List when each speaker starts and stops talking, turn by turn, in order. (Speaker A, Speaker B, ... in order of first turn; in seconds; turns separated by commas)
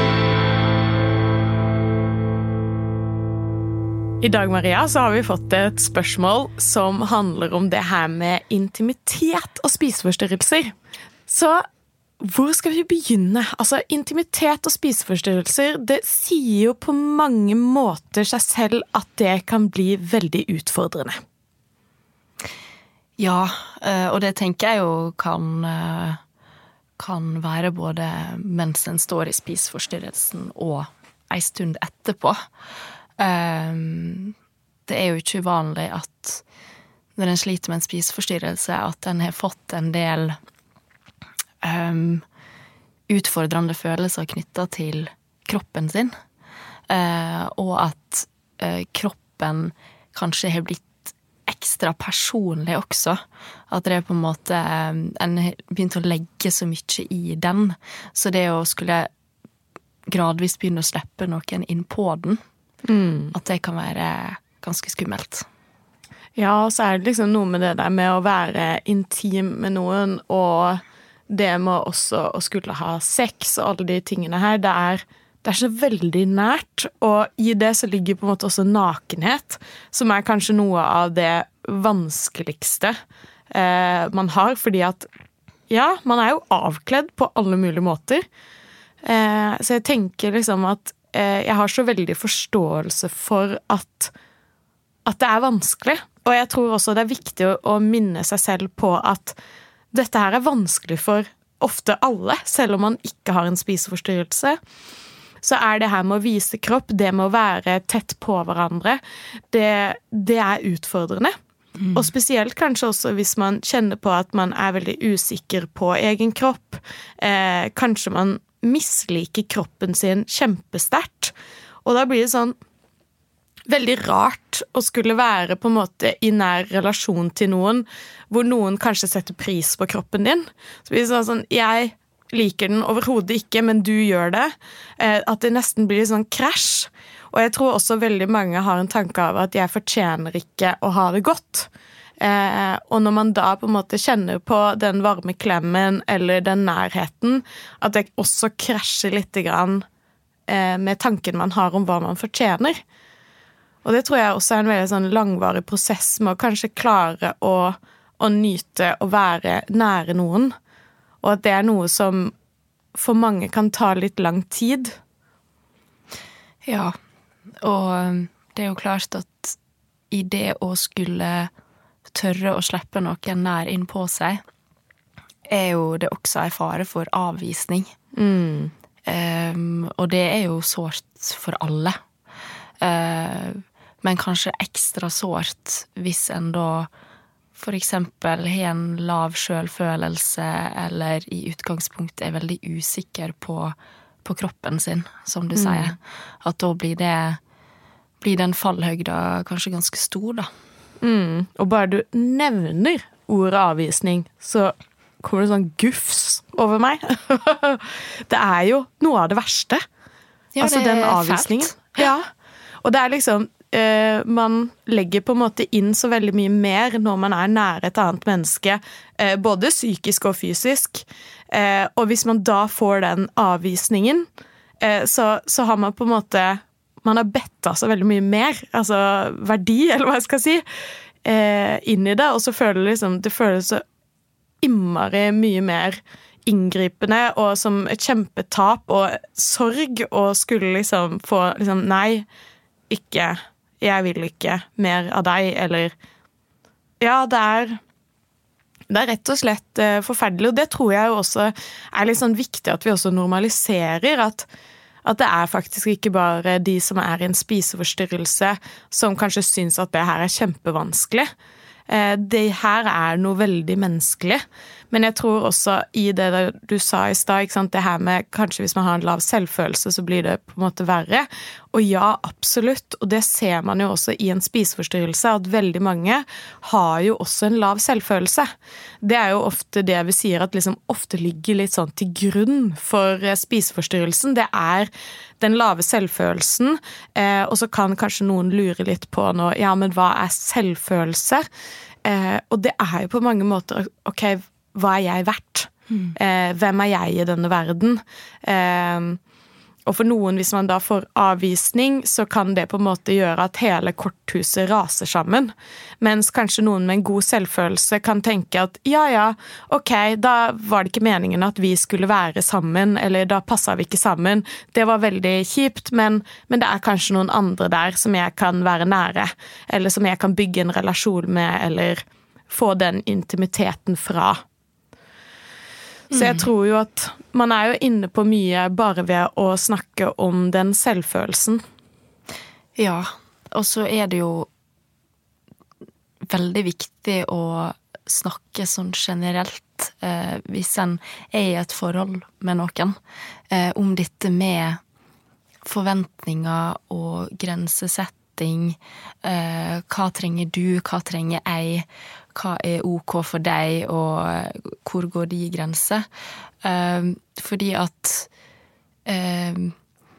Speaker A: 4.2-10.7, Speaker A: 11.3-11.6, Speaker A: 12.2-21.2, Speaker B: 23.2-26.2, Speaker B: 27.0-32.4, Speaker B: 33.2-34.3, Speaker B: 34.9-36.4, Speaker B: 37.2-40.4, Speaker B: 41.6-42.2, Speaker B: 43.1-46.1, Speaker B: 46.9-59.1, Speaker B: 60.1-62.4, Speaker A: 62.9-63.3, Speaker B: 63.3-65.4, Speaker A: 66.3-82.9, Speaker A: 83.5-85.1, Speaker A: 85.7-88.2, Speaker A: 89.0-94.1, Speaker A: 95.0-99.3, Speaker A: 99.9-104.6, Speaker A: 105.4-109.0, Speaker A: 109.5-111.3, Speaker A: 111.9-121.3, Speaker A: 121.8-122.5, Speaker A: 123.7-141.7, Speaker A: 142.2-149.8, Speaker A: 150.5-152.8, Speaker A: 153.8-160.5, Speaker A: 161.2-162.3, Speaker A: 162.9-164.9, Speaker B: 166.7-166.9, Speaker B: 167.6-169.6, Speaker B: 170.1-171.5, Speaker B: 172.1-174.4, Speaker B: 175.5-177.9, Speaker A: 178.2-178.7, Speaker B: 179.1-181.9, Speaker B: 182.8-186.9, Speaker B: 187.6-197.4, Speaker A: 195.6-195.9, Speaker B: 198.2-200.5, Speaker A: 201.0-209.8, Speaker B: 210.6-212.1, Speaker A: 210.6-212.3, Speaker A: 212.8-224.3, Speaker A: 224.8-230.6, Speaker A: 231.2-233.8, Speaker A: 234.6-242.2, Speaker A: 242.9-245.9, Speaker A: 247.0-247.8, Speaker A: 248.9-254.5, Speaker A: 255.1-261.3, Speaker A: 261.9-278.5, Speaker A: 279.0-291.4, Speaker A: 292.1-299.2, Speaker A: 299.9-324.4, Speaker A: 326.1-331.6, Speaker B: 326.1-326.4, Speaker B: 332.8-334.5, Speaker B: 336.3-342.9, Speaker B: 343.5-344.8, Speaker B: 345.6-356.0, Speaker B: 356.6-358.3, Speaker B: 359.1-359.8